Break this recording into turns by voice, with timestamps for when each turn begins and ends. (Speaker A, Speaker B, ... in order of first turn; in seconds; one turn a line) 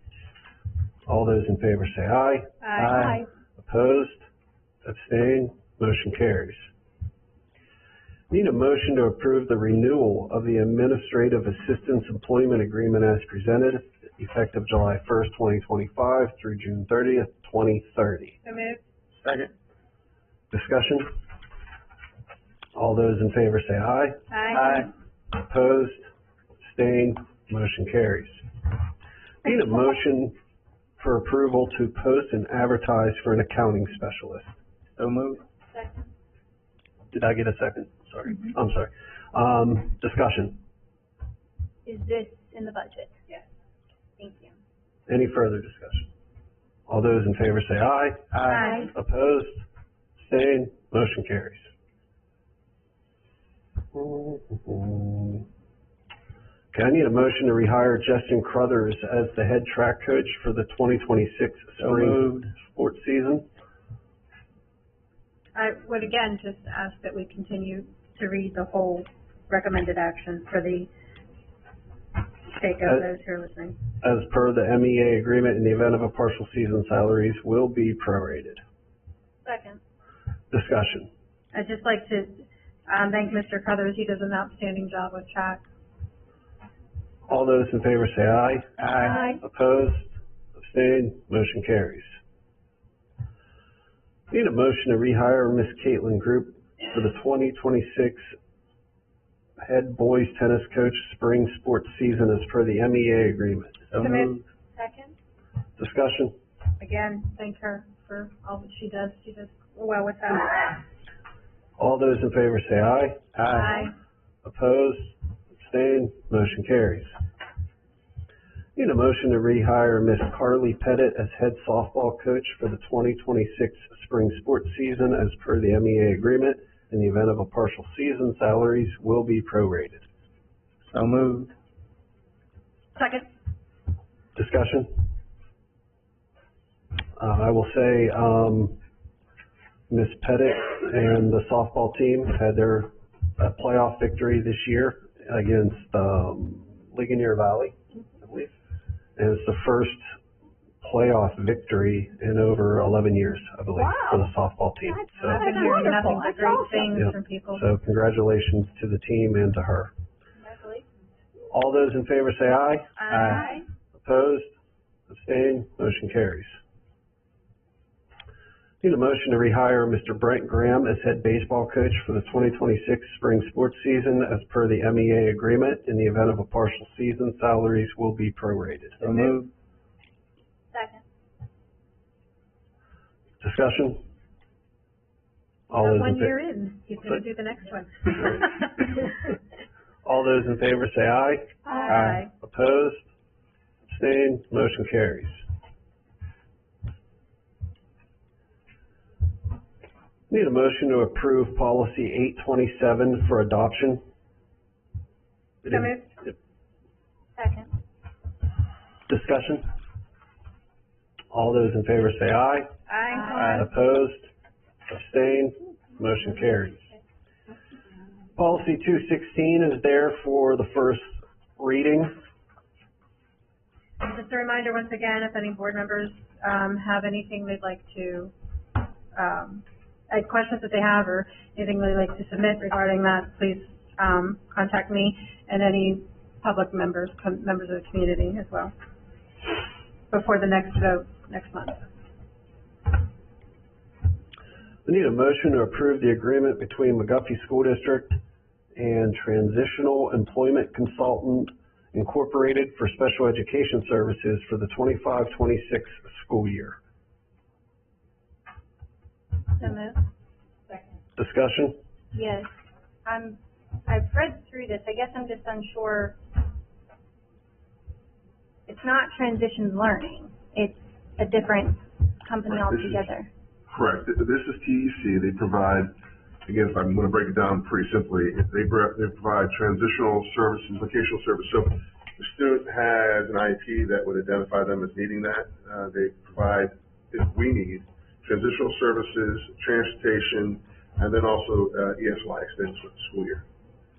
Speaker A: 1.1-2.5
Speaker B: 2.6-3.2
Speaker C: 2.8-3.1
Speaker A: 3.6-4.2
Speaker A: 4.8-6.7
Speaker A: 8.3-18.4
Speaker B: 18.4-18.8
Speaker C: 19.2-19.5
Speaker A: 20.5-21.1
Speaker A: 22.7-24.2
Speaker B: 24.3-24.8
Speaker C: 24.5-24.9
Speaker A: 25.3-26.1
Speaker A: 26.6-28.5
Speaker A: 29.4-30.3
Speaker A: 31.0-34.6
Speaker C: 35.0-35.4
Speaker D: 35.7-36.1
Speaker A: 37.1-40.6
Speaker D: 41.9-43.2
Speaker D: 44.2-44.5
Speaker A: 45.1-46.1
Speaker A: 46.9-48.3
Speaker C: 48.3-48.6
Speaker D: 48.5-48.8
Speaker B: 48.5-48.9
Speaker A: 48.9-49.6
Speaker A: 50.1-51.7
Speaker A: 53.9-55.5
Speaker A: 56.7-63.5
Speaker C: 61.8-62.5
Speaker B: 65.5-70.9
Speaker B: 72.5-73.8
Speaker A: 74.0-78.6
Speaker D: 79.4-79.8
Speaker A: 80.5-81.1
Speaker B: 81.5-85.6
Speaker A: 87.3-88.7
Speaker C: 88.8-89.2
Speaker D: 89.0-89.4
Speaker A: 89.4-92.2
Speaker A: 94.3-98.3
Speaker A: 99.6-103.8
Speaker C: 103.9-104.5
Speaker B: 104.0-104.3
Speaker D: 104.8-105.1
Speaker A: 105.8-106.3
Speaker B: 106.8-110.8
Speaker A: 111.8-113.3
Speaker C: 113.3-113.9
Speaker B: 113.5-113.9
Speaker A: 114.4-117.1
Speaker A: 118.8-130.1
Speaker C: 130.9-131.5
Speaker B: 132.9-133.3
Speaker A: 134.3-134.9
Speaker A: 137.2-138.8
Speaker A: 139.9-148.5
Speaker A: 149.2-150.1
Speaker A: 150.8-155.4
Speaker C: 153.8-154.2
Speaker C: 155.1-156.9
Speaker B: 155.2-157.6
Speaker A: 156.9-159.9
Speaker D: 160.4-160.8
Speaker A: 161.5-162.9
Speaker B: 163.0-163.6
Speaker C: 163.1-163.5
Speaker D: 163.2-163.6
Speaker A: 163.9-164.5
Speaker A: 165.1-166.6
Speaker A: 168.8-179.0
Speaker C: 179.0-179.5
Speaker D: 180.7-181.0
Speaker A: 183.4-184.0
Speaker A: 185.7-186.3
Speaker B: 185.7-188.5
Speaker A: 190.0-191.5
Speaker B: 191.7-192.3
Speaker A: 192.3-193.1
Speaker A: 193.9-195.4
Speaker A: 200.3-204.0
Speaker A: 205.6-206.3
Speaker B: 205.7-206.1
Speaker D: 207.3-207.7
Speaker A: 209.1-209.6
Speaker A: 211.3-212.7
Speaker B: 212.9-213.6
Speaker D: 213.2-213.6
Speaker A: 213.3-214.3
Speaker A: 214.9-216.9
Speaker A: 218.3-222.1
Speaker B: 224.0-228.3
Speaker B: 229.1-238.7
Speaker B: 240.1-241.8
Speaker A: 244.8-248.2
Speaker A: 248.8-256.8
Speaker D: 259.6-260.0
Speaker A: 261.1-261.8
Speaker D: 262.1-262.5
Speaker D: 263.0-266.1
Speaker D: 268.7-273.3
Speaker E: 272.4-273.1
Speaker E: 273.7-293.4